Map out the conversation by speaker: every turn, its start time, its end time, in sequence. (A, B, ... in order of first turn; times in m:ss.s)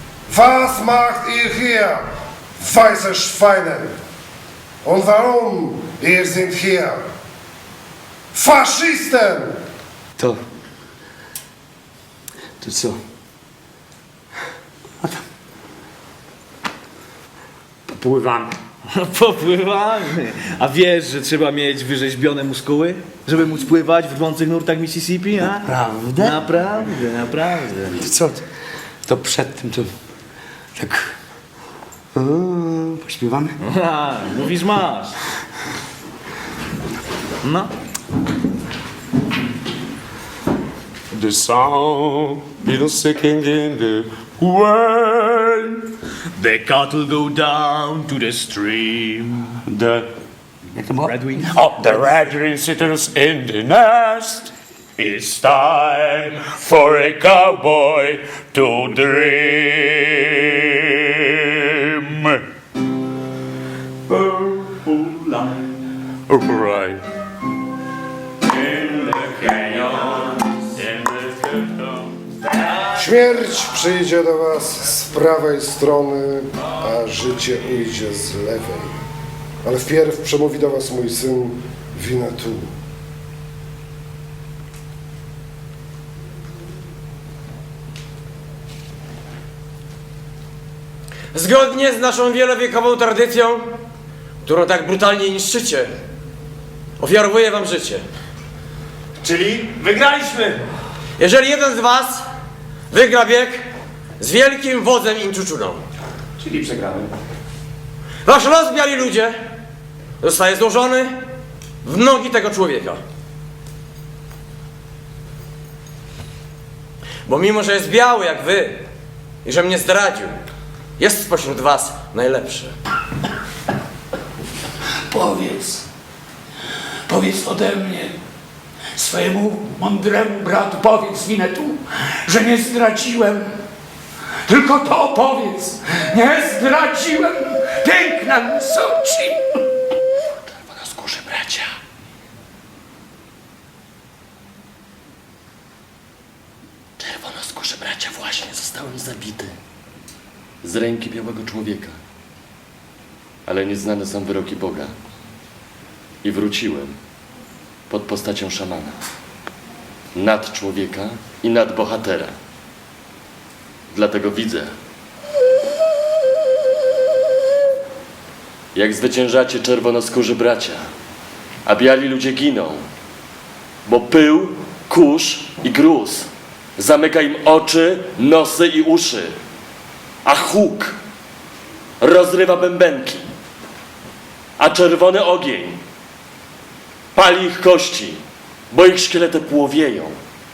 0:00.3-0:02.0 A
0:02.6-0:03.9 A
0:04.8-0:07.0 A
0:08.3-0:09.6 A
0:12.6-0:13.0 B
0:17.9-0:18.5 B
0:18.8-0:28.0 C
0:25.7-0:26.3 B
0:28.0-0:28.4 B
0:29.1-0:29.9 B
0:30.8-0:31.1 B
0:32.2-0:33.5 B
0:33.6-0:35.2 C
0:37.4-0:37.7 C
0:41.1-0:45.9 D
0:46.4-0:49.6 C
0:49.6-0:50.1 D
0:51.0-0:52.1 C
0:51.4-1:02.4 D
1:04.2-1:05.2 D
1:06.3-1:07.0 D
1:08.5-1:12.1 D
1:12.9-1:19.0 A
1:19.6-1:22.7 A
1:31.3-1:33.7 E
1:34.4-1:35.9 E
1:37.0-1:38.0 E
1:41.2-1:42.2 E
1:42.9-1:43.6 E
1:44.2-1:45.8 E
1:48.2-1:49.4 E
1:50.2-1:51.2 E
1:51.8-1:53.0 E
1:57.2-1:58.8 E
1:59.4-2:00.3 E
2:01.0-2:02.7 E
2:05.1-2:05.8 F
2:07.1-2:08.2 F
2:09.0-2:13.6 F
2:14.5-2:19.4 F
2:20.2-2:21.7 G
2:27.0-2:29.5 G
2:30.6-2:31.9 G
2:33.4-2:34.9 G
2:36.2-2:37.0 G
2:37.9-2:38.9 G
2:40.1-2:42.3 G
2:43.9-2:44.7 G
2:48.7-2:50.8 G
2:51.6-2:52.8 G
2:53.8-2:59.3 G
3:00.2-3:01.0 G
3:02.0-3:03.2 G
3:04.6-3:05.8 G
3:07.1-3:08.2 G
3:08.7-3:10.1 G